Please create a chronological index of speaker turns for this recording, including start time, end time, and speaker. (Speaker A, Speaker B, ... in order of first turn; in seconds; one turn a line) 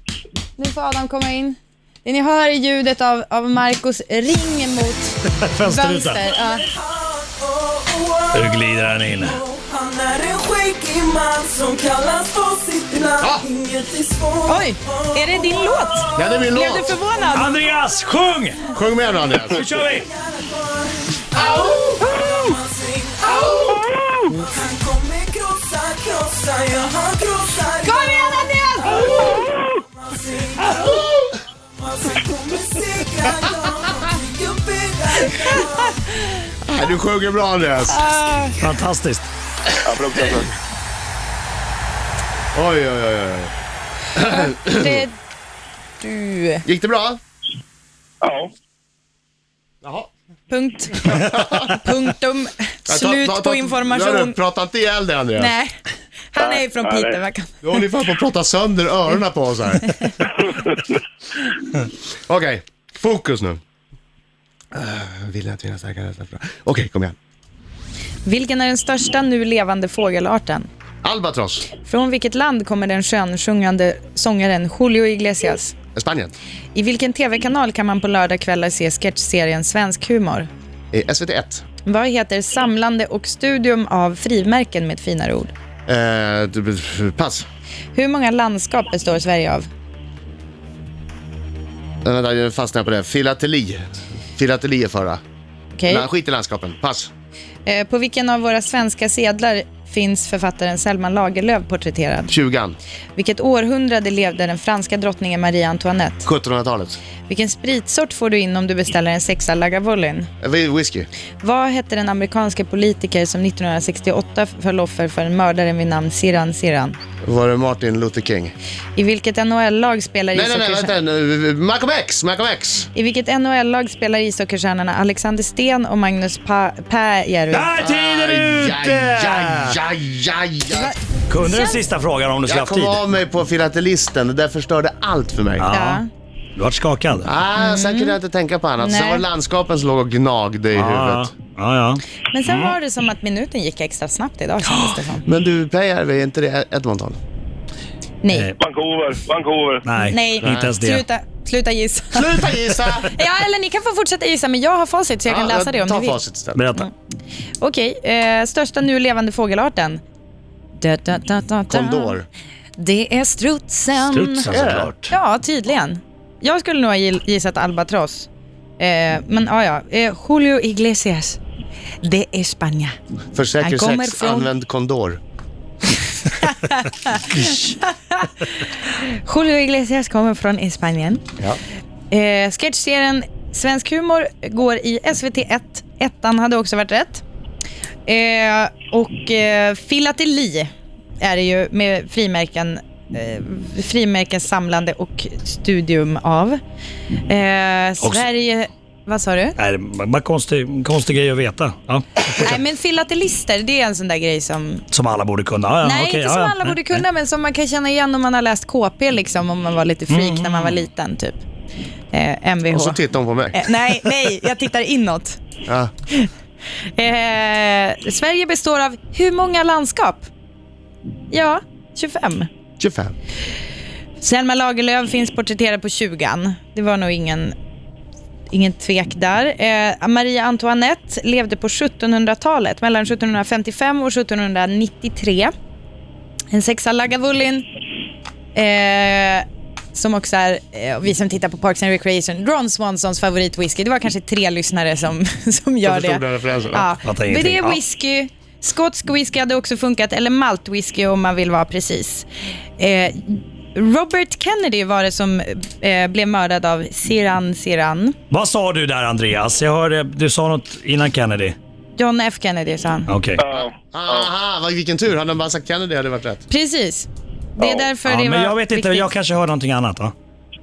Speaker A: 0.6-6.7
Speaker B: 5.3-6.2
Speaker C: 6.5-31.1
Speaker B: 8.3-9.4
Speaker D: 13.2-13.5
Speaker A: 14.5-17.6
Speaker D: 16.1-16.9
Speaker B: 17.3-18.8
Speaker D: 18.7-19.6
Speaker B: 19.4-20.1
Speaker D: 21.4-22.0
Speaker E: 23.6-24.3
Speaker A: 27.8-29.1
Speaker E: 29.2-29.6
Speaker D: 30.8-31.3
Speaker C: 31.8-36.2
Speaker D: 36.6-38.0
Speaker A: 37.9-38.6
Speaker B: 38.6-39.3
Speaker E: 39.8-40.5
Speaker D: 42.5-43.5
Speaker D: 44.2-45.1
Speaker A: 44.2-45.1
Speaker A: 46.0-46.6
Speaker D: 46.7-47.2
Speaker E: 48.2-48.5
Speaker D: 49.8-50.1
Speaker A: 50.5-54.4
Speaker D: 51.2-51.9
Speaker D: 52.9-55.5
Speaker A: 55.4-55.8
Speaker A: 56.3-57.8
Speaker E: 56.4-57.2
Speaker D: 57.6-59.9
Speaker E: 60.2-61.0
Speaker D: 62.3-63.6
Speaker D: 64.7-67.2
Speaker A: 68.2-70.7
Speaker D: 71.0-71.7
Speaker A: 71.8-75.8
Speaker D: 76.0-76.3
Speaker A: 76.7-80.5
Speaker D: 80.9-81.6
Speaker A: 81.8-85.5
Speaker D: 85.9-87.5
Speaker A: 88.0-89.7
Speaker D: 92.0-95.2
Speaker A: 95.8-96.1
Speaker D: 95.9-97.1
Speaker A: 97.7-102.3
Speaker D: 102.3-102.8
Speaker A: 103.2-106.3
Speaker D: 106.3-107.0
Speaker A: 107.3-110.3
Speaker D: 110.4-111.1
Speaker A: 111.4-117.0
Speaker D: 117.2-118.5
Speaker A: 119.0-120.9
Speaker D: 120.3-122.9
Speaker A: 122.9-127.7
Speaker B: 127.5-129.8
Speaker D: 127.8-130.9
Speaker A: 130.7-131.8
Speaker B: 131.3-133.0
Speaker D: 132.5-135.7
Speaker B: 135.6-136.0
Speaker A: 135.7-136.1
Speaker B: 136.6-137.3
Speaker D: 137.2-141.3
Speaker A: 137.6-138.2
Speaker A: 138.8-139.2
Speaker B: 140.7-142.0
Speaker A: 142.3-145.2
Speaker D: 145.3-147.2
Speaker A: 148.2-148.5
Speaker E: 148.6-149.8
Speaker B: 149.8-151.0
Speaker A: 150.0-152.5
Speaker D: 150.4-150.7
Speaker D: 152.1-153.1
Speaker A: 153.0-156.2
Speaker D: 155.3-156.6
Speaker B: 156.6-156.9
Speaker A: 157.6-160.0
Speaker A: 160.8-162.2
Speaker D: 161.7-162.3
Speaker A: 162.8-164.5
Speaker B: 164.0-165.1
Speaker D: 164.5-164.9
Speaker A: 165.1-171.4
Speaker A: 172.0-172.9
Speaker D: 173.3-175.2
Speaker A: 173.6-174.5
Speaker A: 176.2-181.2
Speaker A: 182.1-187.2
Speaker A: 188.1-190.7
Speaker A: 191.2-196.6
Speaker A: 197.3-199.6
Speaker B: 198.0-198.3
Speaker B: 199.6-202.6
Speaker A: 202.3-204.8
Speaker B: 204.9-207.0
Speaker A: 205.8-211.4
Speaker B: 210.1-210.8
Speaker A: 212.1-213.0
Speaker D: 212.7-213.6
Speaker A: 213.5-215.4
Speaker D: 215.7-215.9
Speaker A: 216.9-220.3
Speaker A: 221.3-222.5
Speaker D: 222.8-223.1
Speaker A: 224.2-227.6
Speaker A: 228.5-235.5
Speaker A: 236.5-237.7
Speaker A: 238.6-252.3
Speaker D: 245.8-246.9
Speaker B: 247.0-247.8
Speaker A: 252.8-258.2
Speaker B: 258.3-261.6
Speaker A: 262.0-263.1
Speaker B: 263.1-263.4
Speaker E: 263.4-264.3
Speaker D: 263.5-266.4
Speaker A: 266.5-269.1
Speaker E: 267.6-267.9
Speaker B: 268.0-270.1